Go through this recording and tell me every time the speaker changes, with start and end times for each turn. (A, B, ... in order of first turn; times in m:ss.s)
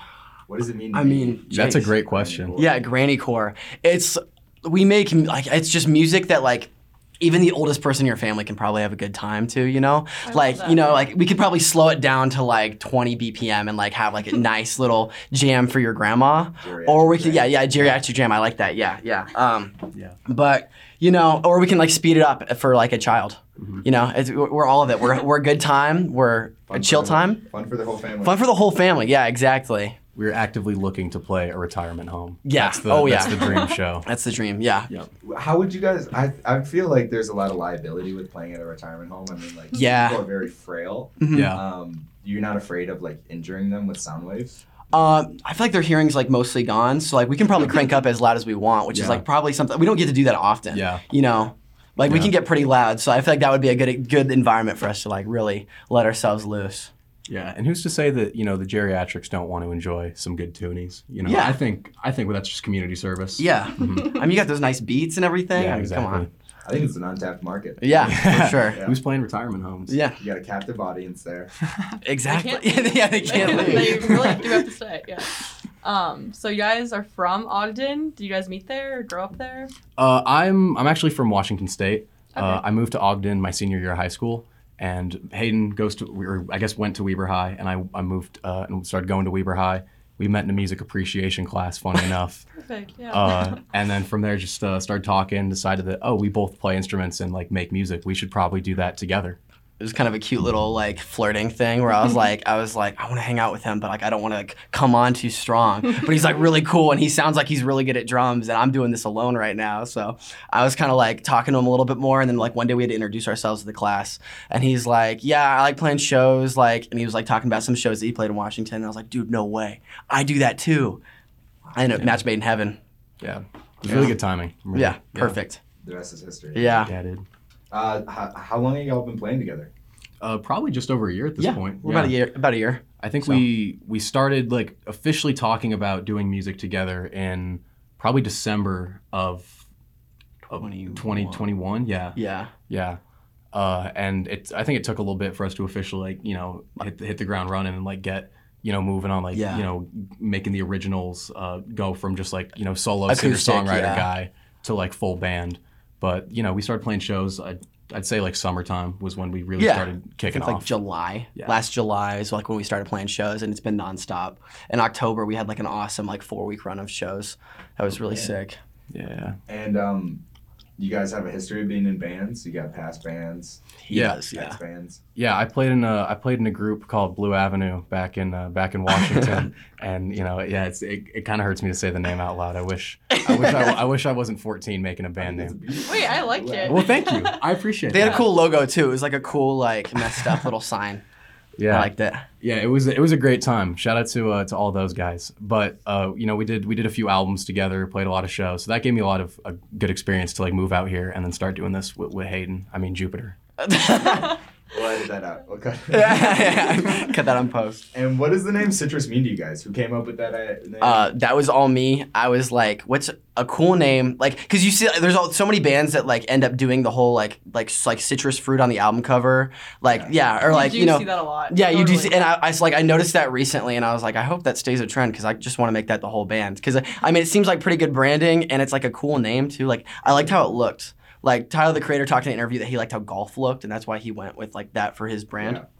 0:00.5-0:02.8 A
0:00.9-0:01.9 B
0:01.5-0:02.6 C
0:02.5-0:27.4 B
0:10.2-0:11.0 D
0:16.6-0:17.6 A
0:23.6-0:23.8 C
0:26.7-0:28.4 A
0:28.2-0:30.0 B
0:30.1-0:34.0 C
0:32.4-0:34.9 B
0:33.2-0:33.7 D
0:35.2-0:44.6 A
0:39.7-0:40.2 B
0:41.2-0:41.5 B
0:41.3-0:41.6 C
0:44.9-0:56.9 B
0:48.9-0:49.2 C
0:50.7-0:51.0 C
0:52.0-0:52.3 C
0:57.3-1:04.2 C
1:01.2-1:01.6 B
1:03.4-1:06.3 B
1:05.5-1:06.3 C
1:06.6-1:08.2 A
1:07.8-1:08.8 B
1:08.0-1:10.0 C
1:08.7-1:09.0 A
1:09.9-1:10.2 B
1:10.2-1:11.5 A
1:11.6-1:12.0 C
1:12.0-1:14.4 B
1:12.3-1:19.7 D
1:13.3-1:14.4 C
1:20.0-1:32.5 C
1:22.4-1:22.6 D
1:32.5-1:33.6 D
1:33.1-1:39.4 C
1:39.8-2:01.0 B
2:01.7-2:02.8 B
2:03.2-2:05.4 C
2:03.8-2:04.1 B
2:04.7-2:05.6 B
2:05.8-2:06.9 A
2:06.5-2:06.9 B
2:06.8-2:07.2 C
2:07.7-2:09.7 A
2:10.2-2:12.2 C
2:11.4-2:13.4 B
2:13.0-2:19.6 C
2:20.5-2:22.2 C
2:20.5-2:21.5 B
2:22.1-2:22.5 B
2:22.7-2:23.0 C
2:23.5-2:40.7 C
2:29.3-2:29.6 B
2:33.1-2:34.1 B
2:39.6-2:48.6 B
2:48.9-2:49.4 C
2:49.5-2:50.2 A
2:50.8-2:53.7 A
2:53.8-2:54.6 B
2:53.9-2:54.3 C
2:54.3-2:55.0 A
2:55.2-3:05.6 C
2:59.0-2:59.4 B
3:03.1-3:03.7 B
3:05.2-3:06.9 A
3:05.8-3:07.4 D
3:06.6-3:08.3 C
3:07.9-3:11.0 B
3:08.0-3:08.2 D
3:11.6-3:23.4 C
3:11.7-3:12.2 B
3:23.6-3:24.4 B
3:24.7-3:27.1 A
3:25.9-3:27.8 B
3:27.9-3:31.1 A
3:30.8-3:55.6 B
3:40.4-3:42.2 D
3:55.4-3:55.6 A